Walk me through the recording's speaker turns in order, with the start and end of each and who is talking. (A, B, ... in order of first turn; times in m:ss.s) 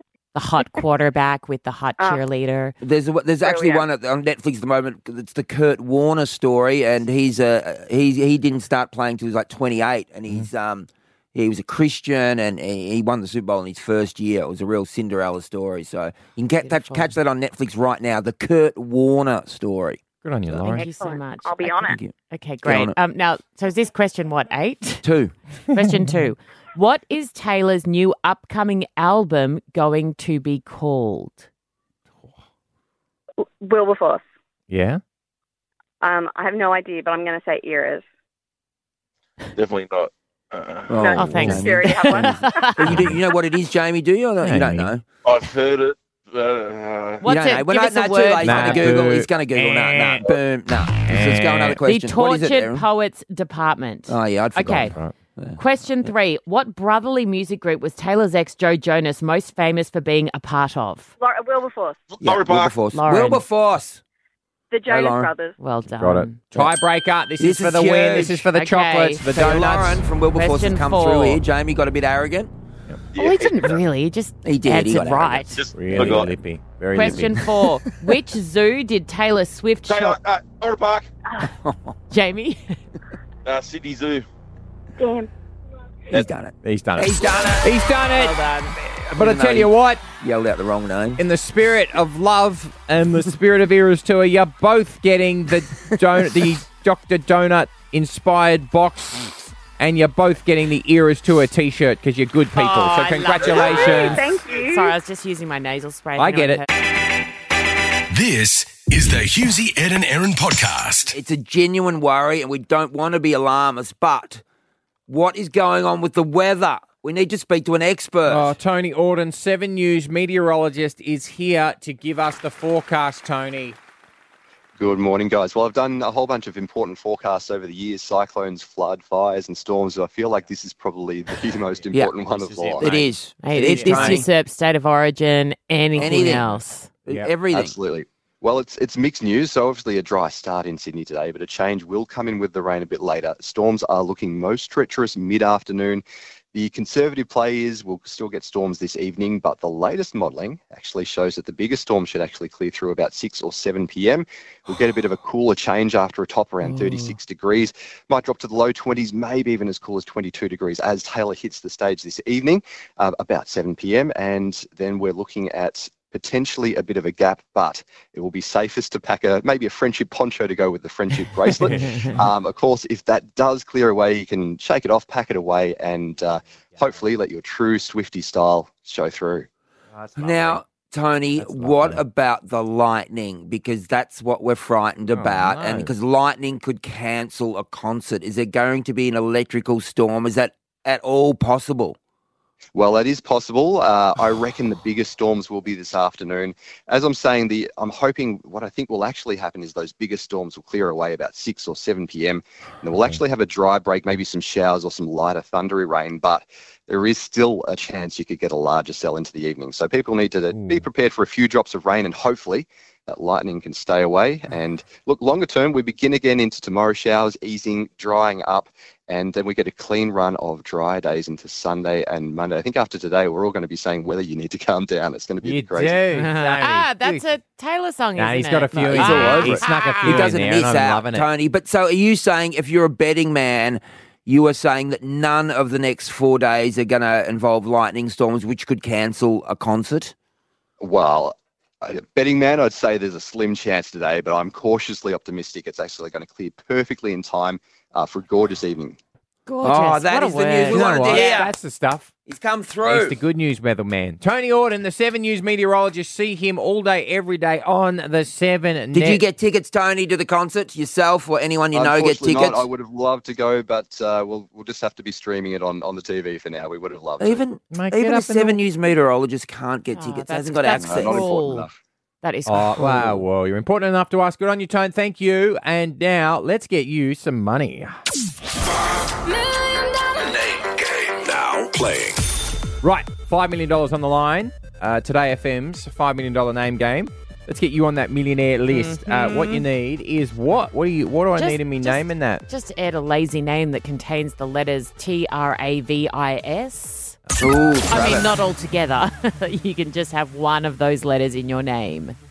0:00.3-0:02.8 A
0:02.8-0:20.8 B
0:03.4-0:03.8 C
0:16.6-0:17.1 A
0:20.2-0:20.8 D
0:20.7-0:25.0 A
0:20.8-0:22.0 C
0:21.8-0:22.9 B
0:25.0-0:25.3 B
0:25.7-0:31.5 A
0:33.6-0:34.2 C
0:34.7-0:35.0 D
0:36.0-0:38.0 C
0:39.5-0:40.9 E
0:40.9-0:45.0 B
0:41.0-0:42.7 C
0:41.1-0:43.1 A
0:41.2-0:42.3 D
0:42.9-0:43.2 D
0:44.4-0:44.9 D
0:45.2-0:47.2 E
0:47.2-0:49.0 A
0:47.2-0:52.8 B
0:48.4-0:50.3 D
0:51.0-0:51.8 D
0:51.8-0:55.0 A
0:54.1-0:55.6 B
0:54.6-0:55.2 D
0:55.6-1:01.1 A
1:01.2-1:02.0 C
1:02.1-1:02.8 E
1:02.2-1:04.0 B
1:02.9-1:03.4 A
1:04.7-1:05.6 C
1:04.9-1:05.3 B
1:05.6-1:06.4 A
1:06.0-1:10.0 D
1:07.4-1:08.5 B
1:08.5-1:09.2 A
1:09.3-1:12.5 B
1:10.3-1:11.4 A
1:13.1-1:13.8 E
1:13.1-1:16.2 A
1:14.4-1:16.1 B
1:15.5-1:16.4 E
1:15.7-1:17.5 D
1:16.9-1:20.2 A
1:19.9-1:21.1 E
1:21.4-1:22.0 B
1:22.1-1:22.8 A
1:23.4-1:24.2 E
1:25.0-1:25.3 C
1:26.1-1:27.8 B
1:26.6-1:30.0 D
1:28.1-1:28.8 A
1:29.2-1:31.2 B
1:31.2-1:44.2 D
1:42.5-1:46.6 A
1:43.4-1:44.6 E
1:43.5-1:44.9 C
1:46.2-1:46.6 D
1:48.1-1:51.2 F
1:51.1-1:54.4 B
1:55.1-1:58.5 B
1:58.2-2:03.8 D
2:04.8-2:13.0 G
2:11.7-2:14.2 D
2:12.8-2:14.2 B
2:13.4-2:16.9 A
2:15.9-2:17.3 D
2:16.0-2:16.4 B
2:17.0-2:17.7 B
2:17.5-2:59.5 G
2:51.5-2:52.2 D
2:51.8-2:52.0 A
2:59.9-3:00.6 D
3:00.2-3:12.0 B
3:01.4-3:02.0 D
3:05.1-3:05.9 D
3:12.7-3:46.0 G
3:22.9-3:23.2 D
3:30.5-3:30.9 D
3:45.4-3:47.3 D
3:46.1-3:50.4 A
3:48.2-3:51.3 D
3:48.8-4:00.1 B
4:00.8-4:09.0 G
4:09.4-4:11.5 A
4:09.6-4:11.5 B
4:10.7-4:12.1 D
4:12.2-4:13.2 B
4:12.8-4:19.2 D
4:18.9-4:22.6 B
4:21.7-4:27.4 G
4:27.2-4:31.3 B
4:27.7-4:28.6 D
4:29.9-4:31.7 A
4:30.7-4:31.7 G
4:32.2-4:33.2 A
4:32.5-4:38.0 D
4:40.1-4:42.2 F
4:42.8-4:52.4 D
4:48.7-4:49.6 A
4:51.3-4:57.2 A
4:57.4-4:58.3 B
4:57.9-5:02.2 A